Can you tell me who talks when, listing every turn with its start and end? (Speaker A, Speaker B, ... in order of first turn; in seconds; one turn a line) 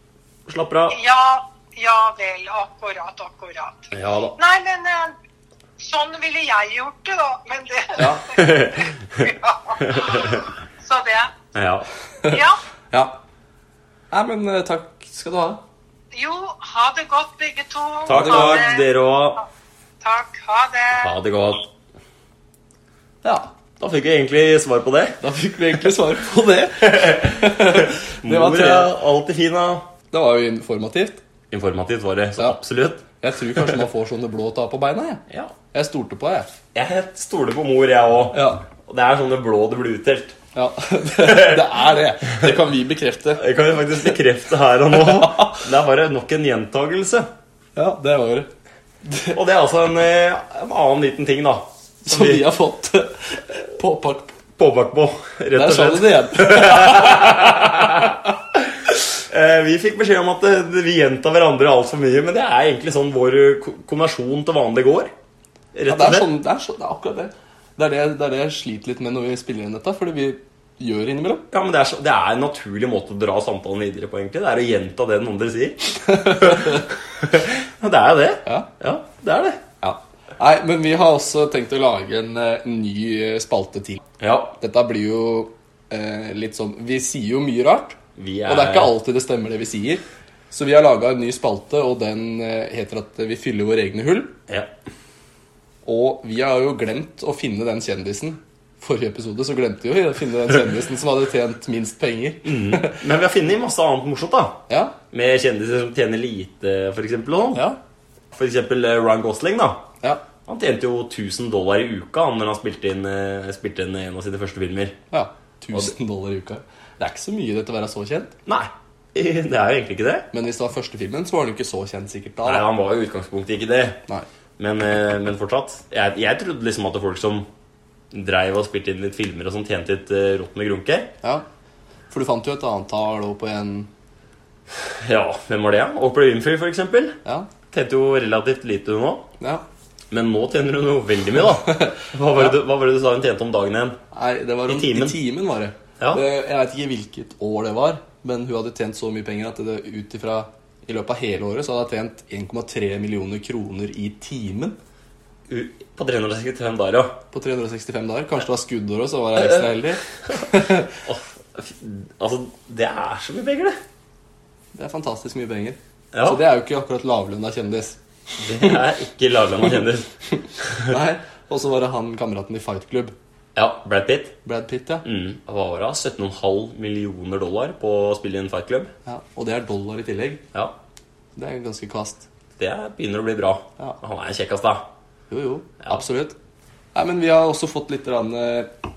Speaker A: 0.5-1.0
Speaker B: 0.9-5.2
Speaker A: 3.9-4.3
Speaker B: 5.8-11.3
Speaker C: 8.0-8.3
Speaker A: 8.2-9.3
Speaker A: 9.8-10.4
Speaker A: 11.5-11.9
Speaker B: 12.2-12.6
Speaker C: 12.9-13.2
Speaker C: 14.1-15.6
Speaker B: 16.1-18.9
Speaker A: 18.1-19.4
Speaker C: 18.1-18.6
Speaker B: 20.0-21.1
Speaker A: 20.9-21.7
Speaker C: 23.2-23.5
Speaker A: 23.8-25.2
Speaker C: 25.2-28.9
Speaker A: 26.8-29.9
Speaker C: 30.1-31.2
Speaker A: 31.5-33.8
Speaker C: 32.4-36.5
Speaker A: 36.7-40.4
Speaker C: 38.3-38.6
Speaker C: 40.5-43.4
Speaker A: 41.2-41.7
Speaker A: 43.4-47.3
Speaker C: 44.9-45.6
Speaker C: 47.8-48.5
Speaker C: 49.0-49.4
Speaker A: 49.3-52.5
Speaker C: 52.0-54.4
Speaker A: 54.6-65.1
Speaker C: 55.5-58.1
Speaker A: 65.7-66.3
Speaker C: 65.9-71.5
Speaker A: 71.5-79.6
Speaker C: 76.1-76.8
Speaker C: 79.8-84.0
Speaker A: 84.2-84.6
Speaker C: 84.6-94.3
Speaker A: 88.2-88.9
Speaker C: 95.8-103.0
Speaker A: 102.4-107.7
Speaker C: 104.7-104.9
Speaker A: 108.3-109.9
Speaker A: 110.4-115.0
Speaker C: 115.1-118.3
Speaker A: 118.5-120.3
Speaker C: 120.3-122.7
Speaker A: 122.4-124.0
Speaker A: 124.6-127.5
Speaker A: 128.1-131.1
Speaker C: 132.1-133.9
Speaker A: 134.9-137.2
Speaker A: 137.7-139.3
Speaker C: 139.4-139.6
Speaker A: 140.1-144.0
Speaker C: 144.1-154.8
Speaker A: 144.7-145.2
Speaker A: 155.5-157.2
Speaker C: 157.3-160.9
Speaker A: 160.9-163.8
Speaker C: 164.7-168.0
Speaker A: 166.1-166.4
Speaker A: 168.4-170.9
Speaker C: 170.9-173.1
Speaker A: 173.5-174.3
Speaker C: 174.4-175.0
Speaker A: 175.0-178.9
Speaker C: 179.1-180.4
Speaker C: 181.3-182.2
Speaker A: 182.6-184.9
Speaker C: 185.3-186.3
Speaker C: 186.9-188.7